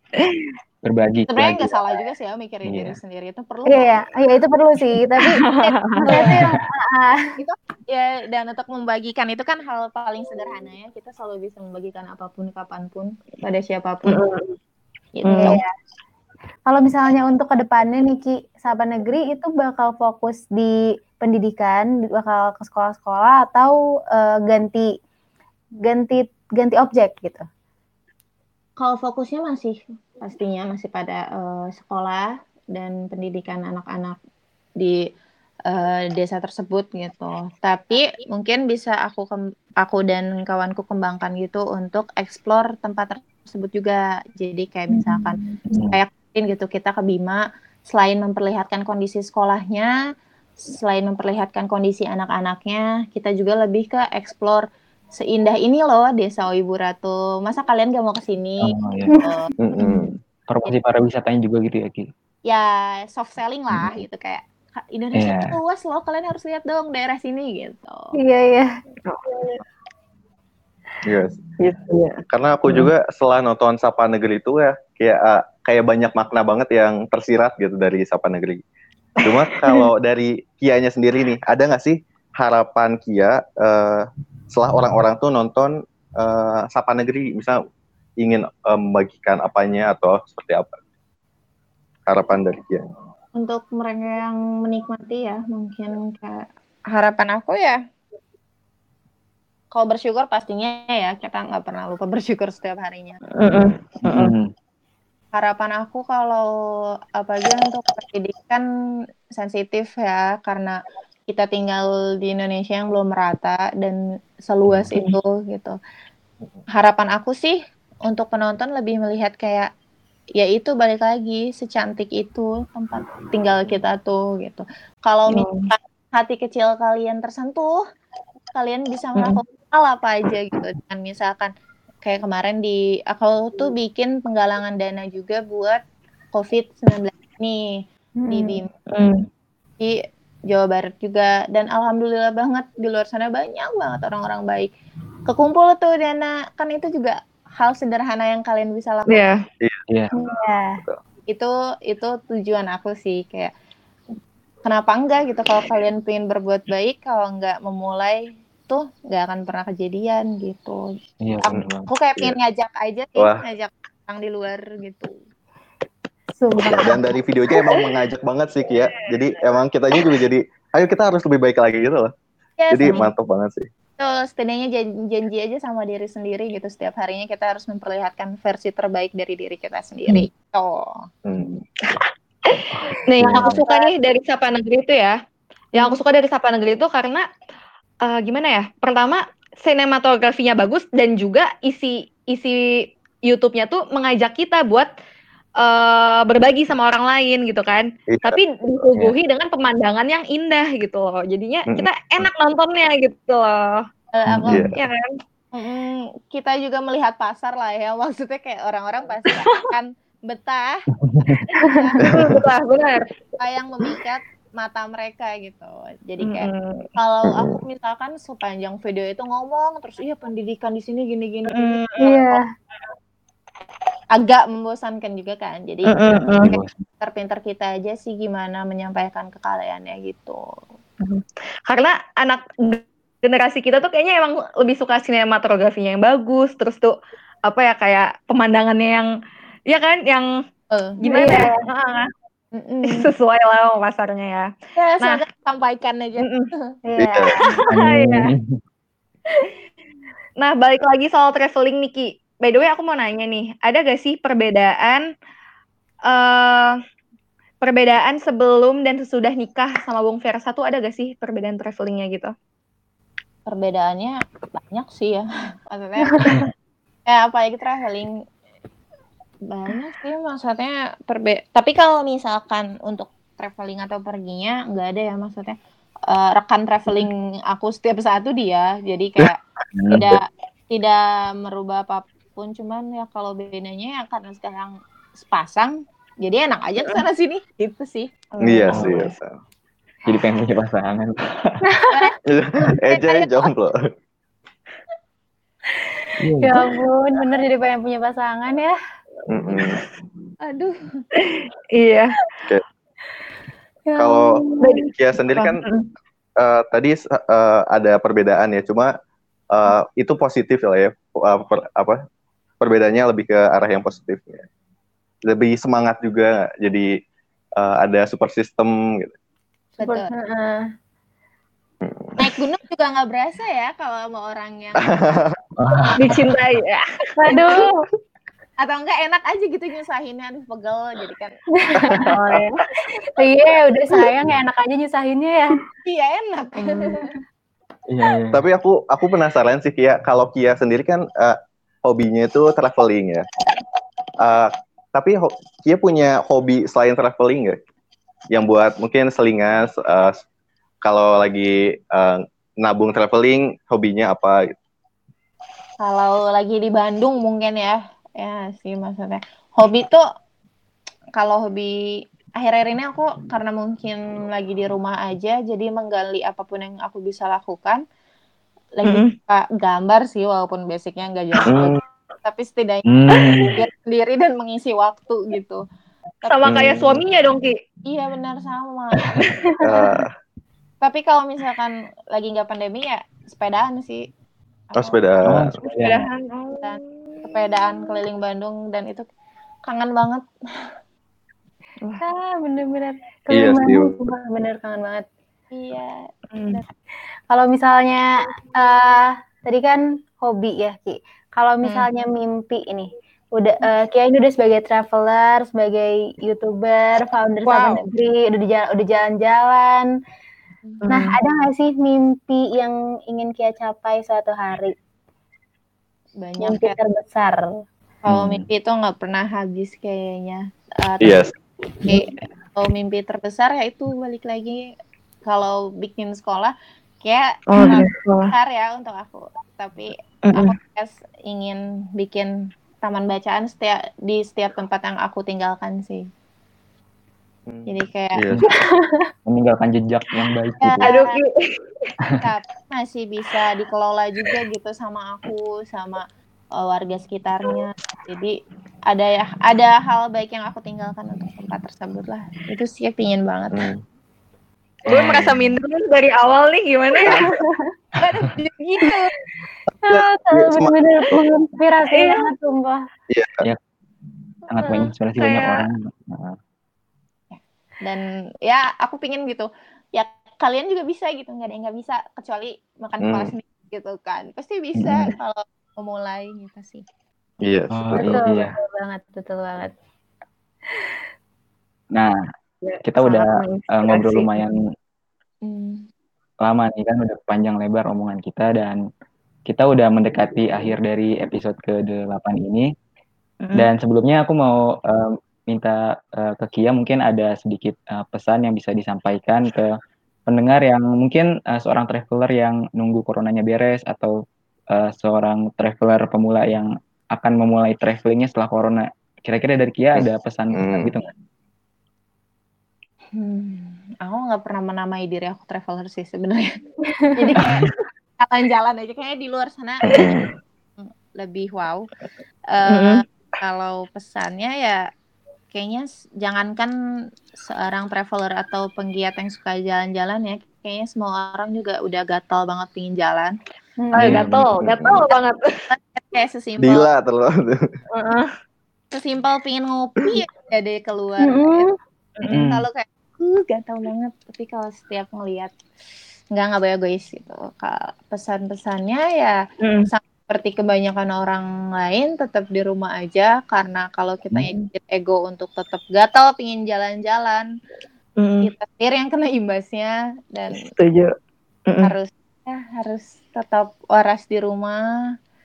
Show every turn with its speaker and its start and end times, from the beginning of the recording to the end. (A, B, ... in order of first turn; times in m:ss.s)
0:00.2-0:00.5 A
0:00.8-0:01.7 B
0:01.3-0:04.1 C
0:02.6-0:03.0 B
0:03.7-0:05.4 D
0:05.2-0:06.4 A
0:05.6-0:06.5 C
0:06.0-0:07.2 D
0:07.4-0:14.2 C
0:14.0-0:14.6 A
0:15.1-0:15.6 C
0:15.2-0:15.6 A
0:15.4-0:15.7 D
0:16.6-0:24.9 D
0:25.8-0:27.4 D
0:28.8-0:34.2 C
0:34.8-0:35.0 C
0:35.7-0:49.9 C
0:45.7-0:46.0 B
0:50.7-0:59.5 C
0:58.6-0:59.1 B
0:59.6-1:00.1 E
1:00.4-1:02.1 B
1:02.4-1:08.1 C
1:03.7-1:04.0 B
1:05.2-1:05.6 B
1:08.1-1:08.7 D
1:09.0-1:09.6 A
1:11.0-1:11.4 E
1:11.6-1:12.2 A
1:12.3-1:18.6 E
1:19.2-1:27.6 E
1:19.5-1:19.8 A
1:28.2-1:30.8 E
1:32.1-1:32.9 E
1:33.3-1:37.8 C
1:39.7-1:43.2 C
1:43.4-1:44.3 A
1:44.1-1:44.5 B
1:45.3-1:46.5 C
1:47.1-1:48.6 C
1:49.4-1:55.8 C
1:56.7-1:59.7 C
2:00.4-2:07.8 C
2:05.3-2:05.7 A
2:08.5-2:11.5 C
2:12.0-2:15.8 C
2:16.3-2:18.7 C
2:18.2-2:18.6 D
2:18.9-2:19.2 A
2:20.5-2:24.7 C
2:25.3-2:29.3 C
2:29.1-2:29.4 A
2:30.1-2:30.8 D
2:31.3-2:33.5 C
2:34.6-2:40.8 C
2:41.2-2:41.9 B
2:41.4-2:45.1 C
2:41.5-2:42.4 E
2:43.2-2:43.4 E
2:46.4-2:47.1 D
2:46.6-2:52.1 E
2:52.6-2:53.0 C
2:52.7-2:53.7 E
2:54.0-3:01.0 C
3:01.2-3:01.6 E
3:01.8-3:05.2 A
3:02.7-3:03.6 B
3:05.7-3:07.2 A
3:08.0-3:12.6 A
3:13.3-3:14.9 A
3:15.6-3:23.8 A
3:18.1-3:18.4 E
3:21.7-3:22.2 E
3:24.1-3:24.7 C
3:24.3-3:24.7 B
3:24.5-3:24.7 E
3:24.7-3:25.1 A
3:25.5-3:32.1 C
3:31.0-3:31.4 B
3:32.0-3:32.4 E
3:32.0-3:33.1 A
3:33.4-3:42.4 C
3:36.2-3:36.9 A
3:37.2-3:37.6 E
3:41.5-3:42.2 A
3:42.0-3:42.4 D
3:44.1-3:50.4 C
3:45.9-3:46.5 A
3:46.4-3:46.8 B
3:51.0-3:56.9 A
3:57.5-3:59.1 A
3:59.7-4:00.3 A
4:00.7-4:01.0 C
4:01.0-4:02.1 A
4:01.0-4:01.6 D
4:02.5-4:03.1 C
4:02.8-4:05.2 A
4:04.8-4:06.7 C
4:06.2-4:06.5 A
4:06.8-4:07.6 D
4:07.0-4:07.4 E
4:07.4-4:08.3 A
4:07.7-4:08.5 B
4:10.4-4:15.0 A
4:16.1-4:16.8 A
4:17.6-4:22.3 A
4:23.4-4:26.4 C
4:26.1-4:26.3 D
4:27.0-4:28.1 C
4:29.5-4:39.4 C
4:39.8-4:40.1 B
4:39.9-4:48.3 C
4:48.4-4:49.1 A
4:48.4-4:49.4 E
4:48.7-4:49.0 B
4:50.1-4:51.1 B
4:51.7-4:52.1 D
4:52.2-4:53.8 E
4:52.9-4:53.5 C
4:56.2-4:56.6 B
4:56.4-4:58.7 D
4:59.3-4:59.8 E
5:00.4-5:00.8 C
5:01.2-5:02.1 A
5:03.9-5:04.9 D
5:04.0-5:05.6 E
5:04.6-5:05.8 A
5:06.4-5:08.9 E
5:09.5-5:12.0 E
5:12.6-5:14.4 E
5:15.2-5:16.9 E
5:17.6-5:19.1 E
5:19.8-5:20.1 C
5:19.8-5:20.6 D
5:21.8-5:22.3 E
5:22.2-5:25.1 C
5:24.7-5:25.4 E
5:25.6-5:26.3 B
5:26.0-5:26.8 A
5:27.2-5:27.8 D
5:28.6-5:32.1 C
5:31.6-5:32.1 D
5:32.1-5:32.6 A
5:33.2-5:35.6 D
5:35.8-5:37.1 C
5:37.9-5:38.4 B
5:38.3-5:43.3 E
5:44.2-5:47.6 E
5:48.3-5:50.2 E
5:50.8-5:54.6 E
5:55.8-6:00.0 C
6:01.2-6:01.8 C
6:02.4-6:07.8 C
6:08.7-6:12.8 C
6:08.8-6:09.1 A
6:11.5-6:11.8 E
6:12.9-6:13.5 B
6:13.2-6:13.5 A
6:13.6-6:15.6 C
6:16.2-6:16.5 C
6:16.2-6:17.6 A
6:16.4-6:17.0 E
6:17.8-6:19.1 C
6:19.6-6:19.8 D
6:19.6-6:20.1 E
6:20.8-6:24.1 C
6:24.7-6:25.4 C
6:24.8-6:25.6 E
6:25.3-6:26.1 B
6:25.7-6:27.3 A
6:26.6-6:29.0 C
6:29.7-6:30.2 C
6:32.0-6:35.0 D
6:33.3-6:34.0 E
6:35.5-6:36.7 C
6:36.3-6:36.6 A
6:37.3-6:38.0 D
6:38.6-6:49.9 D
6:47.5-6:47.8 A
6:50.8-6:51.1 A
6:50.9-6:54.7 D
6:56.2-6:56.8 C
6:56.4-6:57.6 D
6:58.0-7:01.3 C
6:58.1-6:58.4 B
7:01.0-7:01.3 E
7:01.8-7:04.7 C
7:05.2-7:16.1 C
7:07.5-7:08.3 A
7:10.2-7:10.5 A
7:17.5-7:18.4 E
7:17.7-7:18.3 C
7:18.5-7:19.1 D
7:19.2-7:20.8 B
7:20.6-7:21.2 C
7:20.8-7:21.9 A
7:22.2-7:26.0 C
7:26.6-7:28.4 C
7:28.9-7:33.7 C
7:33.5-7:33.8 E
7:34.8-7:35.6 B
7:34.9-7:37.3 A
7:37.0-7:37.7 D
7:38.0-7:39.1 C
7:39.8-7:41.2 E
7:39.8-7:42.8 D
7:41.9-7:42.2 A
7:43.1-7:43.4 E
7:44.5-7:46.4 B
7:44.6-7:45.7 A
7:47.3-7:56.8 C
7:53.0-7:53.3 E
7:54.8-7:55.1 B
7:57.4-7:58.2 E
7:57.7-7:58.5 B
7:57.9-7:59.7 D
8:02.6-8:04.3 A
8:02.8-8:04.6 B
8:05.4-8:05.8 C
8:06.4-8:08.8 B
8:09.5-8:12.7 B
8:13.5-8:19.7 B
8:20.3-8:24.2 B
8:24.7-8:31.0 B
8:30.0-8:31.0 E
8:33.1-8:36.5 C
8:36.9-8:37.2 D
8:37.2-8:37.7 C
8:38.2-8:40.1 C
8:39.9-8:40.3 E
8:40.8-8:41.9 C
8:42.5-8:44.8 C
8:42.7-8:43.0 A
8:45.5-8:46.7 C
8:47.4-8:53.4 C
8:53.8-8:54.1 D
8:53.9-8:55.6 A
8:54.0-8:54.3 B
8:54.2-8:55.0 E
8:55.7-8:56.9 C
8:56.6-8:57.6 E
8:57.9-8:58.3 A
8:58.9-9:01.7 C
9:01.2-9:01.7 D
9:02.2-9:02.5 A
9:02.2-9:05.6 C
9:02.3-9:02.6 B
9:06.3-9:17.5 C
9:09.6-9:09.9 A
9:14.3-9:14.7 A
9:18.2-9:18.5 A
9:18.4-9:20.7 C
9:20.7-9:21.1 A
9:21.7-9:21.9 A
9:21.8-9:24.8 C